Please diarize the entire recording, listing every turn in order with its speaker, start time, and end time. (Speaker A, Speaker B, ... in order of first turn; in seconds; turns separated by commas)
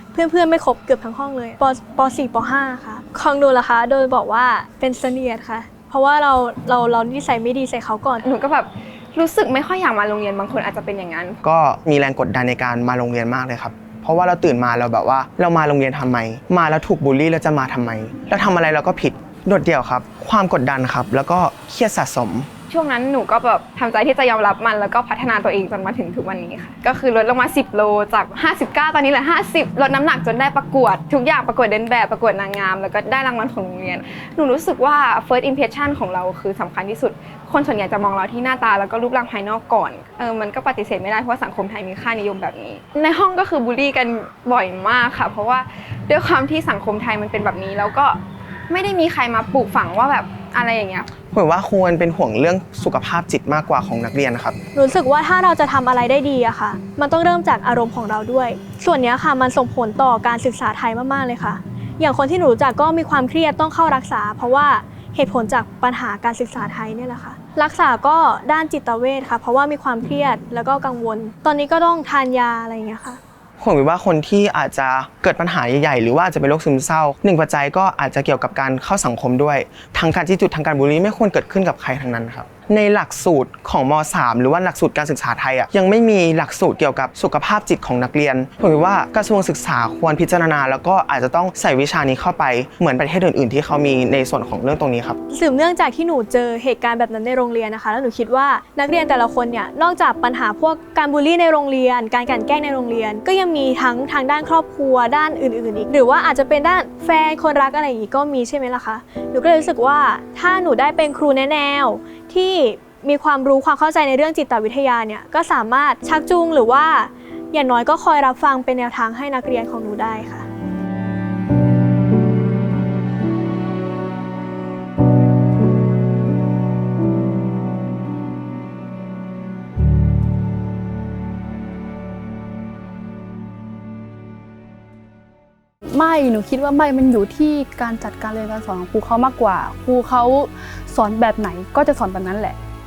Speaker A: 0.1-8.2, Speaker B: 8.2-11.4, Speaker C: 11.4-22.5, Speaker B: 22.7-51.1, Speaker C: 51.2-54.6, Speaker A: 54.8-73.2, Speaker C: 73.6-95.2, Speaker A: 95.3-120.5, Speaker D: 135.9-142.6